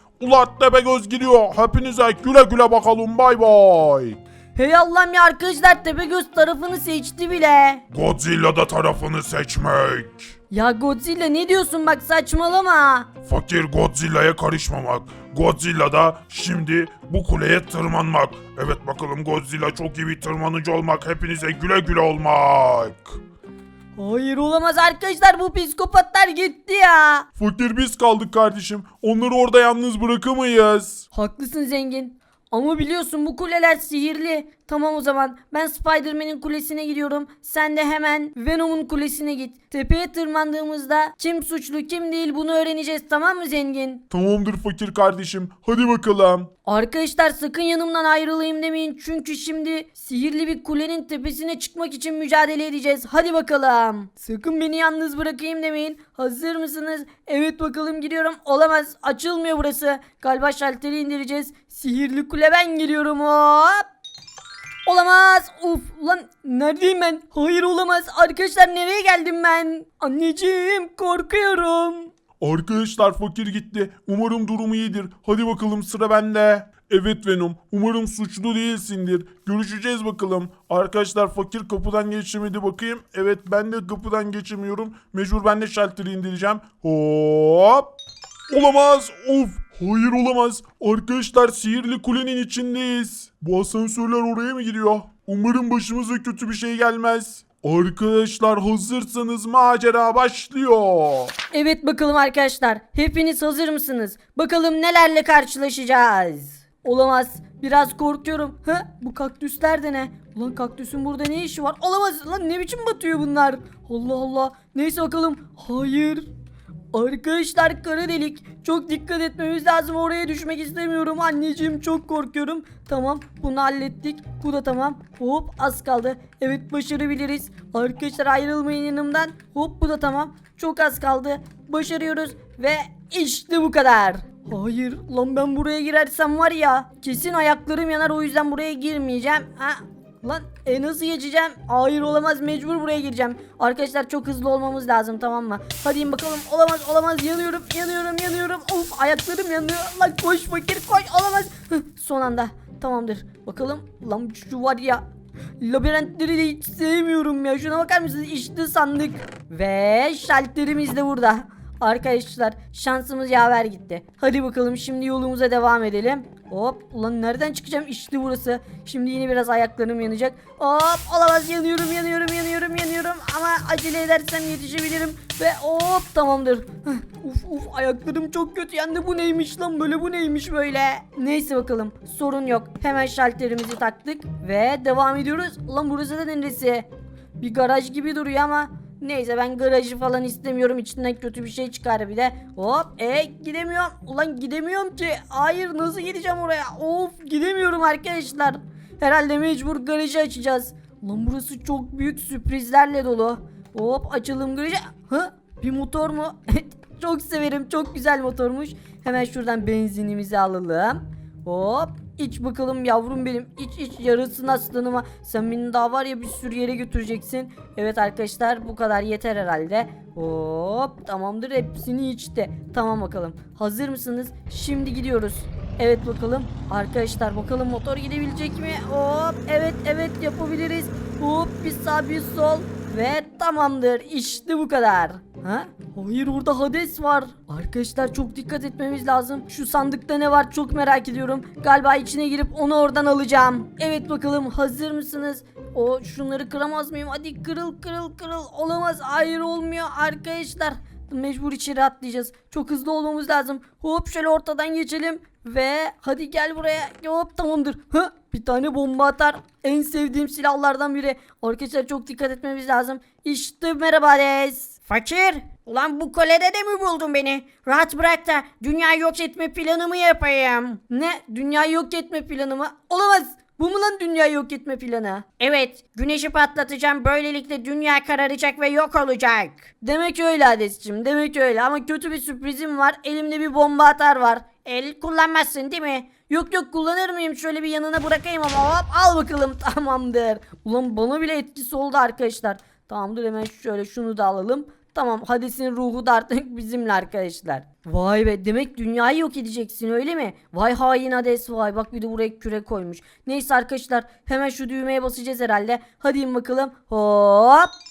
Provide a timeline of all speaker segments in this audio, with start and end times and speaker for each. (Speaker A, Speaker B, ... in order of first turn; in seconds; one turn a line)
Speaker A: 0.2-4.2
Speaker B: 4.5-7.8
Speaker A: 7.9-10.3
Speaker B: 10.5-13.1
Speaker A: 13.3-23.2
Speaker B: 24.0-27.3
Speaker A: 27.4-31.1
Speaker B: 31.1-44.0
Speaker A: 44.1-46.5
Speaker B: 46.6-63.9
Speaker B: 64.9-72.1
Speaker A: 72.4-87.9
Speaker A: 88.5-101.3
Speaker B: 101.5-116.3
Speaker B: 116.9-155.0
Speaker B: 155.6-186.9
Speaker B: 187.4-264.8
Speaker C: 264.9-270.7
Speaker B: 270.7-275.4
Speaker C: 275.4-279.5
Speaker B: 279.7-307.7